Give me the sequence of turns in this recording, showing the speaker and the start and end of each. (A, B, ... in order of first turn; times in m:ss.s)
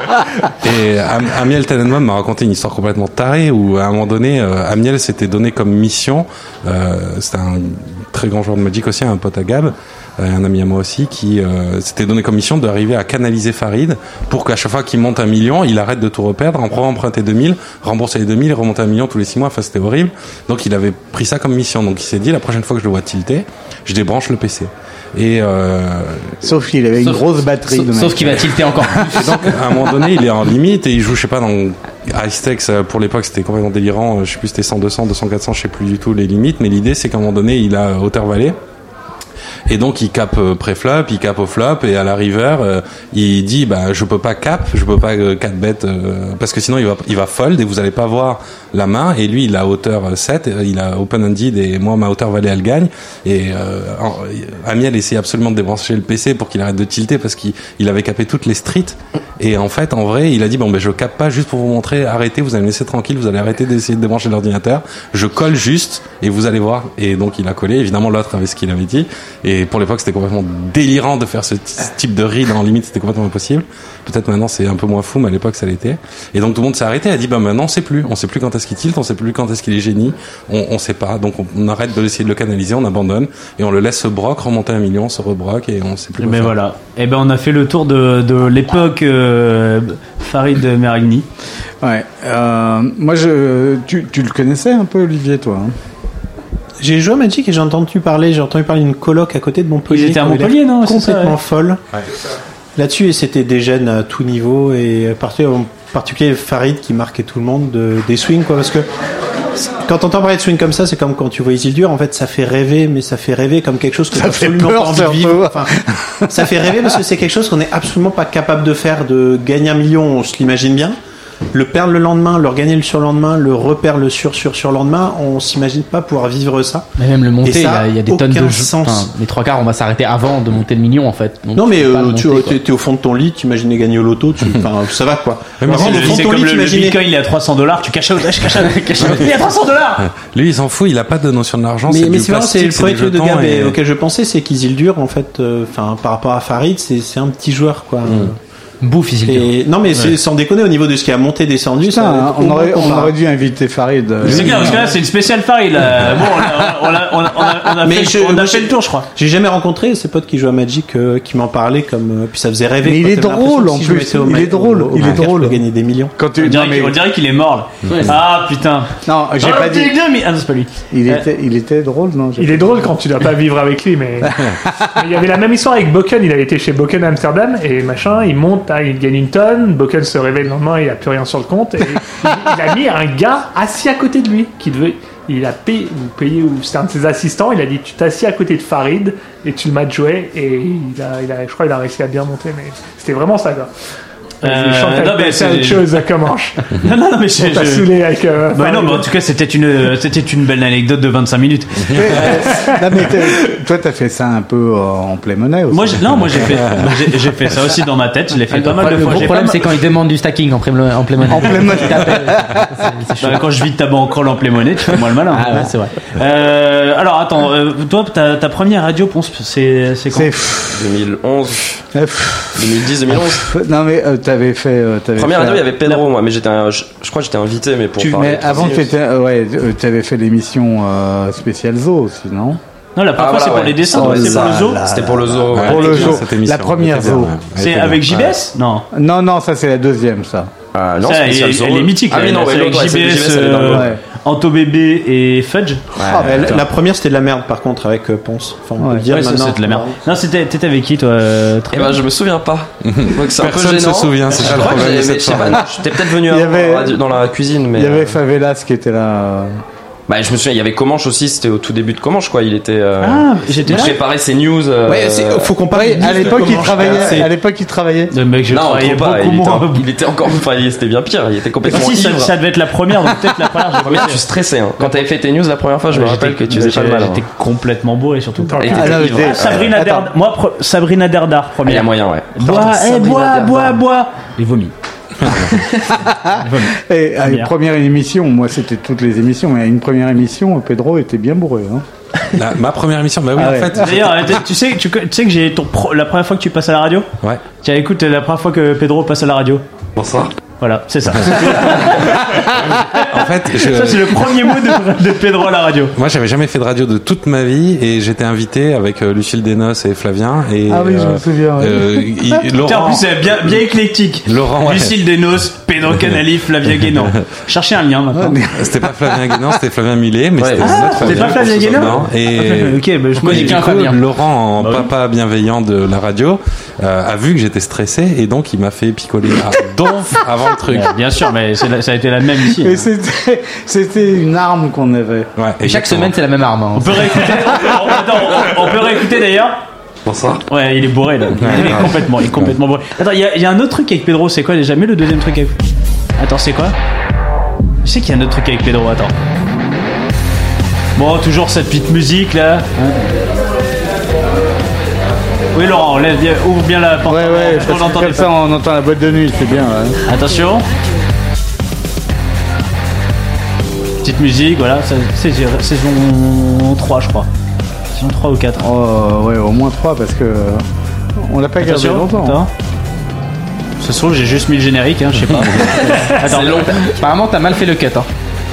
0:00.6-0:26.4 A
0:26.4-0:29.2 B
0:27.0-0:29.5 C
0:29.1-0:38.6 A
0:39.7-1:26.6 A
1:26.2-1:31.3 D
1:31.8-1:35.7 B
1:36.8-1:41.8 E
1:39.9-1:41.4 D
1:42.8-1:48.9 E
1:49.6-1:55.7 E
1:54.1-1:57.0 B
1:56.3-2:01.0 E
2:01.5-2:06.9 E
2:07.0-2:12.6 C
2:07.4-2:09.1 E
2:11.6-2:17.0 E
2:15.6-2:16.2 A
2:15.7-2:20.0 D
2:18.5-2:19.4 C
2:19.0-2:19.3 A
2:20.0-2:23.8 A
2:21.9-2:28.4 E
2:28.8-2:29.6 C
2:29.2-2:33.1 E
2:31.8-2:34.8 B
2:34.2-2:39.1 D
2:37.8-2:46.1 E
2:42.8-2:45.6 B
2:46.2-2:47.0 B
2:46.4-2:51.2 D
2:47.9-2:48.2 C
2:49.0-2:50.0 B
2:50.9-2:52.9 B
2:52.4-3:13.7 F
3:14.4-3:16.7 F
3:14.4-3:15.9 D
3:16.8-3:17.9 D
3:17.4-3:19.1 F
3:18.5-3:22.4 D
3:21.9-3:26.7 B
3:25.7-3:29.6 D
3:28.5-3:33.4 C
3:31.3-3:32.9 B
3:33.2-3:40.3 D
3:35.3-3:36.0 C
3:40.1-3:41.0 B
3:40.7-3:41.8 G
3:41.9-3:45.8 B
3:42.6-3:43.5 G
3:45.2-3:48.9 G
3:48.0-3:52.6 B
3:53.0-3:54.8 D
3:53.2-3:56.2 G
3:54.0-3:57.3 B
3:55.5-3:58.4 A
3:55.8-3:56.1 D
3:57.6-3:58.9 D
3:58.9-4:00.5 B
4:00.7-4:03.9 G
4:01.1-4:06.6 D
4:03.7-4:04.0 B
4:06.0-4:06.4 G
4:06.2-4:10.0 E
4:08.8-4:09.0 B
4:09.1-4:12.0 D
4:11.7-4:18.0 G
4:12.8-4:15.7 A
4:15.6-4:19.5 B
4:20.1-4:25.5 G
4:23.0-4:24.0 D
4:24.8-4:27.2 E
4:25.7-4:28.1 B
4:26.0-4:27.0 G
4:26.8-4:27.3 D
4:28.1-4:29.8 D
4:28.5-4:32.4 G
4:31.7-4:34.2 D
4:33.0-4:33.3 G
4:33.8-4:37.2 G
4:34.8-4:35.1 D
4:35.9-4:44.7 D
4:38.5-4:39.0 F
4:38.5-4:39.7 G
4:38.7-4:40.1 B
4:41.6-4:43.8 G
4:46.0-4:51.8 B
4:46.4-4:47.5 D
4:52.3-4:54.4 A
4:53.4-4:54.0 B
4:53.8-4:57.1 D
4:57.6-4:59.6 D
5:00.0-5:00.3 A
5:00.6-5:03.0 D
5:01.2-5:04.5 A
5:03.6-5:05.9 D
5:06.0-5:13.6 A
5:10.7-5:12.4 B
5:12.6-5:18.4 D
5:14.3-5:15.0 A
5:18.2-5:19.4 B
5:18.6-5:30.9 A
5:20.4-5:21.8 G
5:20.6-5:24.0 D
5:23.2-5:24.0 C
5:24.6-5:24.9 D
5:30.7-5:32.8 D
5:32.5-5:35.3 B
5:35.4-5:36.2 A
5:35.6-5:37.9 C
5:36.8-5:39.6 D
5:40.1-5:40.4 A
5:40.5-5:45.6 D
5:41.4-5:42.6 A
5:46.2-5:46.8 D
5:47.8-5:49.1 D
5:51.0-5:53.2 D
5:55.5-5:58.3 D
5:57.1-6:00.0 B
6:00.1-6:00.7 D
6:04.0-6:07.3 D
6:08.0-6:08.7 D
6:08.6-6:10.6 B
6:11.2-6:12.4 B
6:11.6-6:12.5 D
6:13.8-6:16.8 D
6:15.5-6:16.9 G
6:16.4-6:18.1 C